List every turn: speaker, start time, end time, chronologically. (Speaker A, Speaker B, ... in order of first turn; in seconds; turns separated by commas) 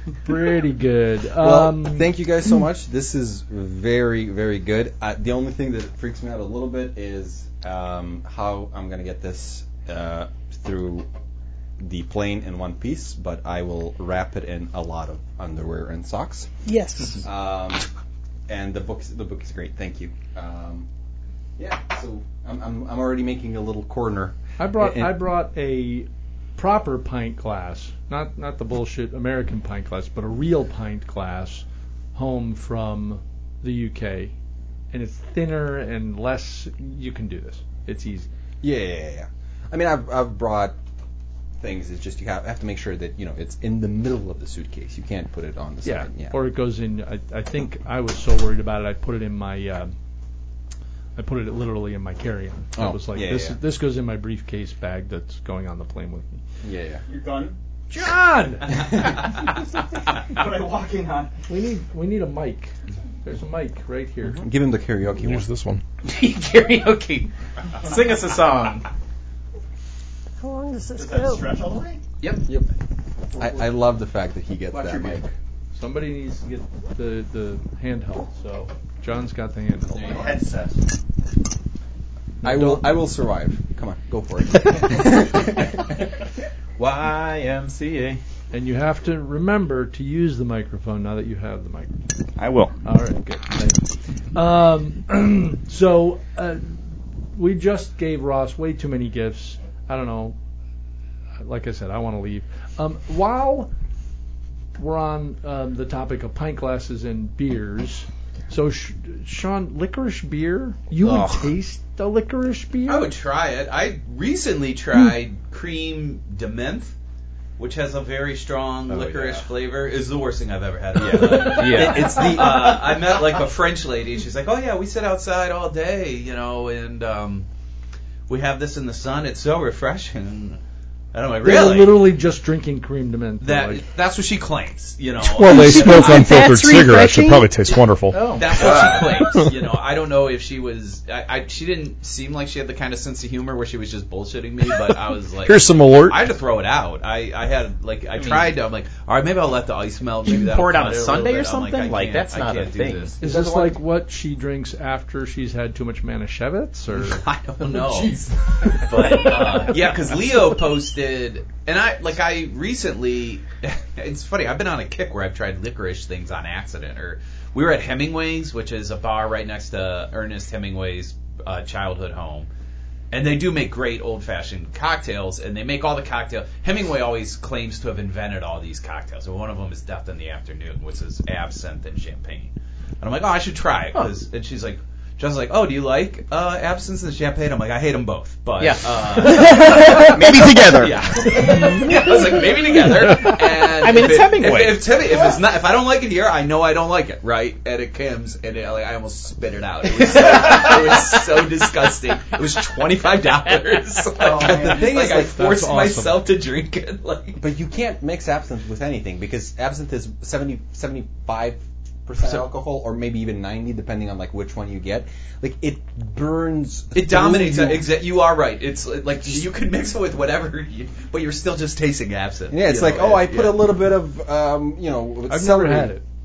Speaker A: 0.2-2.1, Speaker B: 1.4-11.1, Speaker B: 11.8-16.5, Speaker C: 16.6-17.2, Speaker B: 17.2-17.9, Speaker B: 18.5-20.9, Speaker B: 21.6-25.2, Speaker A: 24.6-34.3, Speaker A: 34.9-38.3, Speaker B: 38.6-40.8, Speaker B: 41.6-46.4, Speaker A: 45.8-49.9, Speaker A: 51.1-56.4, Speaker B: 52.8-53.6, Speaker B: 56.6-57.0, Speaker D: 57.0-57.5, Speaker A: 57.9-59.0, Speaker D: 60.3-61.3, Speaker A: 61.5-62.7, Speaker A: 63.2-64.4, Speaker B: 64.4-65.5, Speaker E: 65.2-65.8, Speaker F: 66.0-67.3, Speaker F: 67.8-68.9, Speaker C: 70.4-71.4, Speaker D: 70.9-72.0, Speaker B: 73.3-75.3, Speaker F: 74.7-75.2, Speaker A: 75.7-80.3, Speaker D: 80.0-80.9, Speaker A: 82.4-83.0, Speaker B: 82.4-86.0, Speaker F: 86.8-88.2, Speaker A: 88.5-91.9, Speaker D: 92.4-92.7, Speaker A: 92.8-96.8, Speaker A: 97.3-100.3, Speaker A: 101.4-103.7, Speaker A: 104.8-113.1, Speaker F: 111.0-111.5, Speaker G: 112.9-116.9, Speaker G: 117.6-127.5, Speaker F: 118.9-119.4, Speaker F: 120.9-122.8, Speaker B: 121.5-122.8, Speaker G: 128.3-130.6, Speaker G: 131.1-132.1, Speaker A: 131.4-133.8, Speaker G: 133.4-136.2, Speaker E: 135.2-138.3, Speaker C: 135.4-137.6, Speaker F: 138.1-139.4, Speaker G: 138.2-153.1, Speaker E: 139.2-139.5, Speaker E: 145.4-146.2, Speaker F: 148.2-148.5, Speaker F: 150.3-153.2, Speaker B: 153.2-153.8, Speaker A: 153.2-157.2, Speaker G: 156.9-158.2, Speaker B: 158.0-159.0, Speaker F: 158.8-159.9, Speaker G: 158.8-172.5, Speaker G: 173.1-207.4, Speaker F: 188.6-189.6, Speaker D: 189.6-190.9, Speaker F: 193.7-194.9, Speaker F: 200.1-200.8, Speaker D: 204.2-204.8, Speaker B: 204.3-205.4, Speaker A: 205.1-206.2, Speaker B: 207.4-217.9, Speaker G: 216.9-223.6, Speaker B: 222.5-225.9, Speaker A: 225.3-226.0